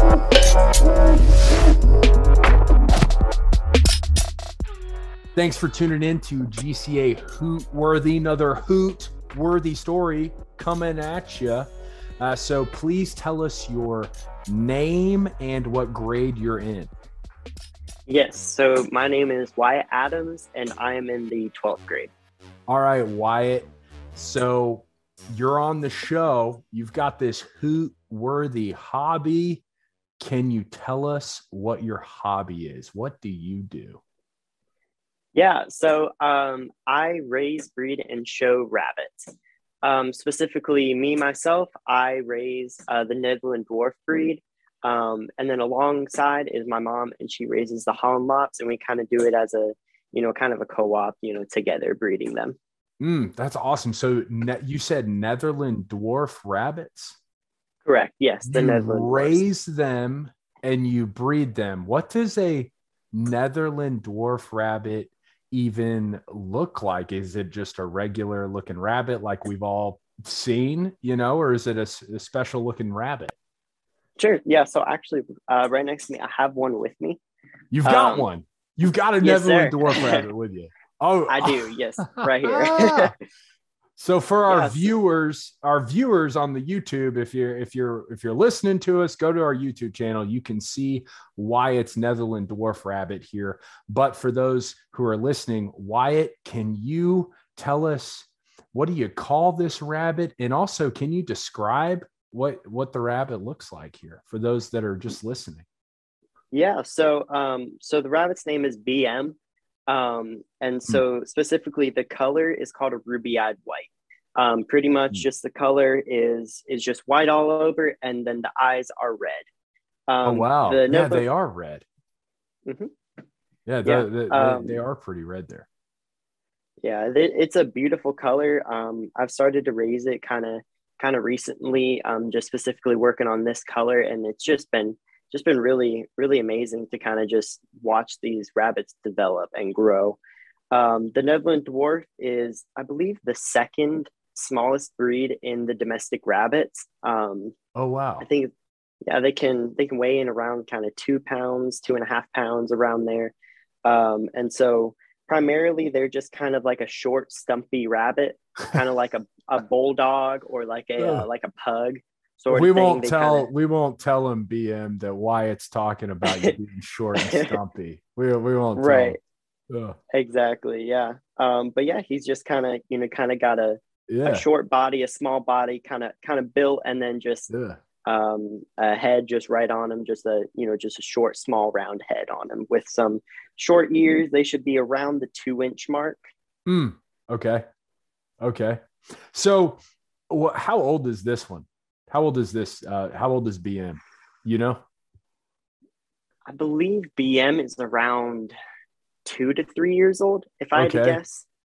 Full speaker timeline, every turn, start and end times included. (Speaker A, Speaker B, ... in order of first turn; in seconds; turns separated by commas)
Speaker A: 5.3-16.9, Speaker B: 18.1-22.1, Speaker A: 22.7-29.6, Speaker A: 30.2-34.0, Speaker B: 35.3-52.6, Speaker A: 53.0-57.2, Speaker B: 57.8-59.4, Speaker A: 58.5-73.3, Speaker B: 74.2-77.2, Speaker A: 77.7-83.1, Speaker B: 77.8-78.3, Speaker B: 79.2-80.2, Speaker B: 81.3-83.1, Speaker A: 84.0-105.7, Speaker B: 84.5-84.9, Speaker B: 106.5-109.4, Speaker B: 109.9-119.5, Speaker B: 120.1-121.2, Speaker A: 120.2-121.8, Speaker B: 122.7-122.9, Speaker A: 123.7-125.7, Speaker B: 123.8-124.8, Speaker B: 126.8-140.2, Speaker B: 140.7-147.5, Speaker A: 147.7-148.2, Speaker B: 148.2-148.5, Speaker B: 149.1-153.3, Speaker B: 153.8-163.5, Speaker A: 161.0-161.3, Speaker A: 162.5-169.2, Speaker B: 166.3-166.5, Speaker B: 167.2-167.5, Speaker B: 168.8-169.2, Speaker A: 169.7-170.0, Speaker B: 170.1-177.5, Speaker A: 174.1-174.4, Speaker A: 177.5-177.8, Speaker B: 178.1-186.2, Speaker A: 186.7-187.6, Speaker A: 188.4-189.8, Speaker A: 190.3-194.8, Speaker B: 196.5-198.5, Speaker B: 199.2-201.4, Speaker A: 200.7-201.2